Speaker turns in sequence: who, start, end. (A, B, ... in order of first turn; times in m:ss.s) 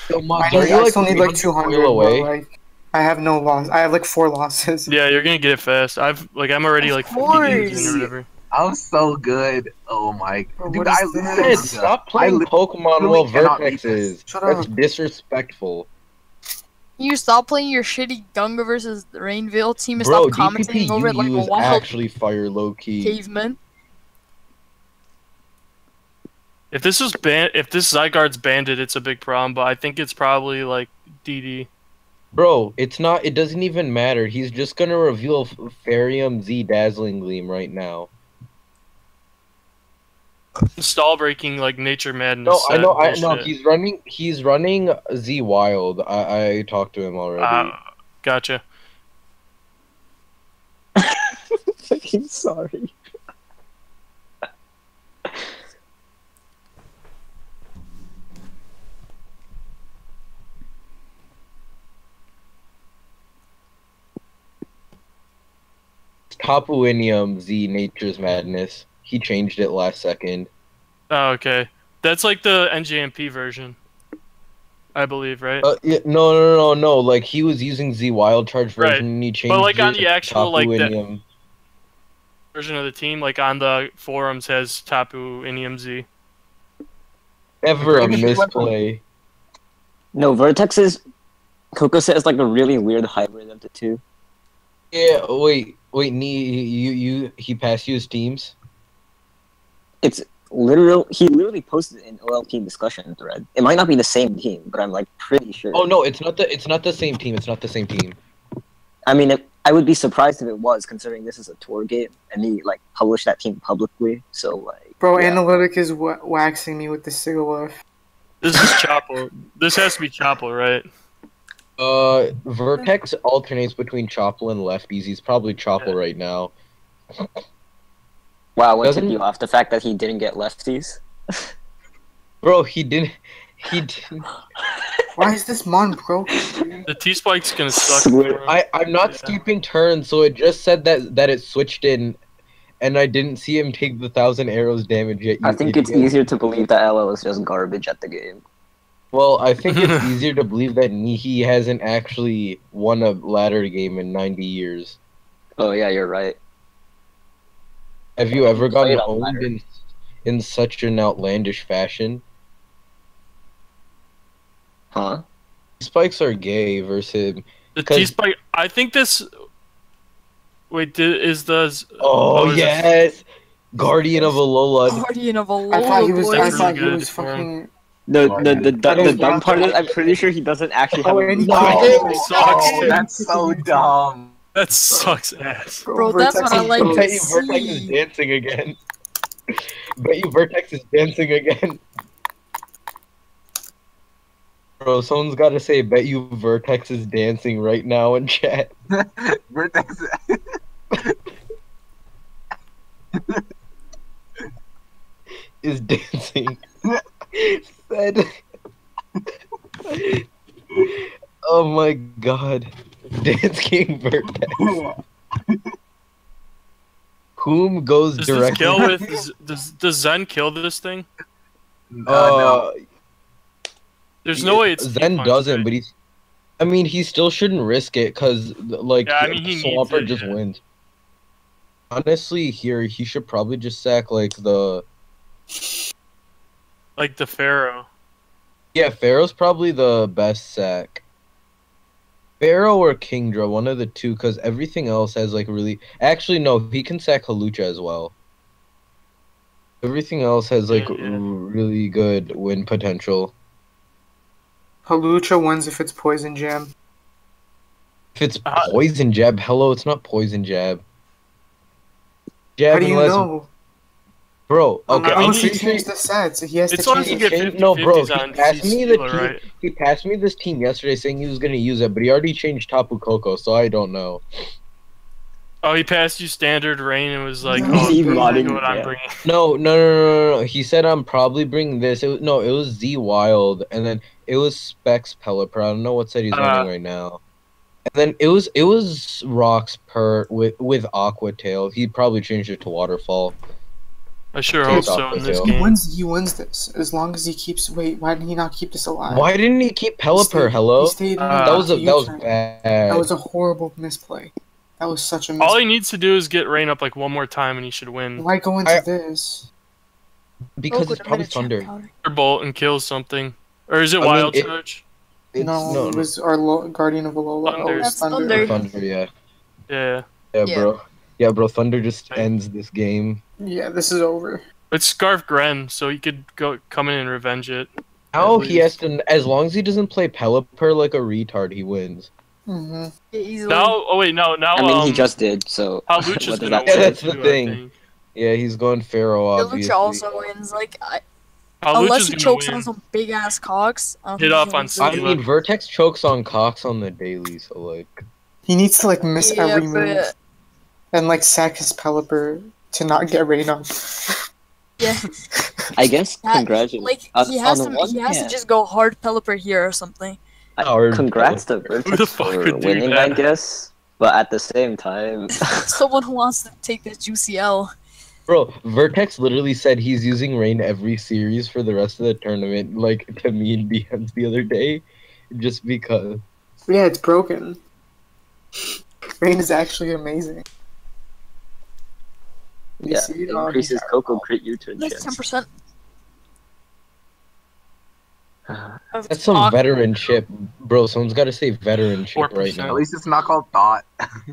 0:00.1-0:02.3 A
0:00.4-0:04.9 B
0:04.9-0:08.2 C
0:06.8-0:08.1 D
0:07.3-0:08.1 B
0:08.5-0:14.2 E
0:10.6-0:11.7 B
0:11.3-0:15.9 A
0:14.2-0:14.7 B
0:17.0-0:21.9 D
0:20.0-0:23.2 A
0:23.0-0:23.6 D
0:26.7-0:31.7 C
0:32.3-0:38.1 A
0:40.8-0:43.5 C
0:42.4-0:47.7 A
0:47.4-0:48.6 C
0:51.0-0:51.3 F
0:51.9-0:52.9 F
1:06.3-1:10.5 A
1:11.1-1:13.8 C
1:14.9-1:15.7 C
1:15.6-1:21.2 A
1:18.8-1:20.9 C
1:22.5-1:26.0 C
1:27.6-1:29.0 A
1:27.8-1:28.7 E
1:30.1-1:31.0 F
1:31.7-1:34.0 F
1:34.9-1:38.5 A
1:40.0-1:45.9 F
1:45.7-1:48.2 A
1:49.0-1:55.4 F
1:55.0-1:57.7 B
1:58.4-2:00.9 C
2:01.8-2:06.5 A
2:08.6-2:11.4 F
2:08.8-2:09.2 A
2:12.4-2:14.3 A
2:15.2-2:16.8 B
2:16.3-2:16.8 F
2:16.9-2:19.4 C
2:17.8-2:18.4 F
2:18.5-2:22.2 A
2:22.8-2:26.1 A
2:25.4-2:28.4 F
2:29.1-2:35.0 A
2:29.7-2:30.0 C
2:35.6-2:36.4 F
2:38.2-2:39.6 A
2:38.3-2:39.5 F
2:40.2-2:42.2 A
2:44.9-2:45.2 F
2:45.8-2:48.1 A
2:47.7-2:49.3 C
2:50.7-2:52.9 C
2:52.0-2:55.0 A
2:54.9-2:56.8 D
2:55.7-2:57.7 B
2:56.3-2:57.5 C
2:58.1-3:01.8 F
2:58.2-2:59.2 E
2:58.8-3:00.1 B
3:00.9-3:03.9 B
3:01.4-3:02.8 A
3:01.6-3:03.0 C
3:01.7-3:04.4 E
3:02.3-3:03.0 D
3:04.5-3:05.8 C
3:05.8-3:07.2 B
3:05.9-3:07.9 D
3:06.6-3:08.8 A
3:10.0-3:11.8 A
3:14.8-3:18.7 A
3:18.9-3:20.4 E
3:23.1-3:23.4 E
3:25.6-3:26.6 A
3:27.3-3:28.3 A
3:29.9-3:30.2 A
3:30.8-3:34.7 A
3:34.5-3:35.0 E
3:37.4-3:38.9 A
3:38.2-3:41.0 C
3:38.8-3:39.1 E
3:41.9-3:42.6 E
3:42.1-3:42.8 A
3:44.2-3:45.7 C
3:44.3-3:45.9 A
3:46.6-3:50.6 A
3:49.0-3:50.4 C
3:51.9-3:54.8 A
3:57.0-3:57.9 C
3:58.7-4:01.0 A
4:02.4-4:08.1 A
4:09.8-4:13.3 A
4:10.7-4:11.2 C
4:14.8-4:16.7 B
4:18.1-4:20.8 A
4:18.4-4:18.8 C
4:22.6-4:23.3 A
4:22.7-4:23.5 B
4:24.5-4:25.9 A
4:24.9-4:25.6 C
4:24.9-4:27.3 B
4:26.7-4:29.4 C
4:27.0-4:34.2 A
4:35.6-4:39.1 C
4:37.4-4:38.6 B
4:37.5-4:38.9 F
4:39.2-4:47.2 A
4:46.3-4:46.7 C
4:47.9-4:53.3 A
4:54.3-4:55.8 C
4:54.7-4:55.5 A
4:54.7-4:59.3 B
4:59.1-5:03.1 A
5:00.1-5:02.3 B
5:01.2-5:01.7 C
5:02.9-5:05.6 B
5:05.4-5:08.3 C
5:08.2-5:09.5 B
5:10.6-5:11.7 A
5:10.7-5:11.9 D
5:12.0-5:14.8 C
5:14.0-5:14.5 A
5:15.3-5:16.1 A
5:15.4-5:18.6 B
5:17.4-5:18.0 C
5:17.8-5:18.6 D
5:18.3-5:19.1 A
5:19.7-5:20.0 C
5:20.3-5:23.2 A
5:20.4-5:20.7 D
5:23.4-5:24.4 B
5:24.7-5:28.8 C
5:28.1-5:32.1 A
5:32.5-5:32.9 B
5:33.1-5:33.7 D
5:33.5-5:35.1 C
5:34.5-5:37.0 F
5:35.9-5:37.7 C
5:36.6-5:37.6 A
5:38.1-5:40.0 A
5:39.4-5:41.0 D
5:41.6-5:42.7 C
5:41.7-5:45.0 D
5:44.2-5:45.2 C
5:44.8-5:48.0 A
5:48.5-5:50.0 B
5:49.2-5:50.1 D
5:50.9-5:54.2 B
5:54.8-5:55.1 D
5:55.7-5:58.4 F
5:56.2-6:00.2 D
6:00.6-6:05.7 F
6:00.6-6:01.4 A
6:01.8-6:03.2 C
6:05.3-6:07.7 D
6:08.3-6:16.2 A
6:16.7-6:17.6 B
6:19.2-6:20.4 B
6:22.8-6:25.2 F
6:22.8-6:24.2 B
6:24.8-6:25.5 D
6:28.5-6:28.8 F
6:28.9-6:29.6 D
6:29.1-6:32.8 A
6:32.1-6:32.8 C
6:32.7-6:33.9 E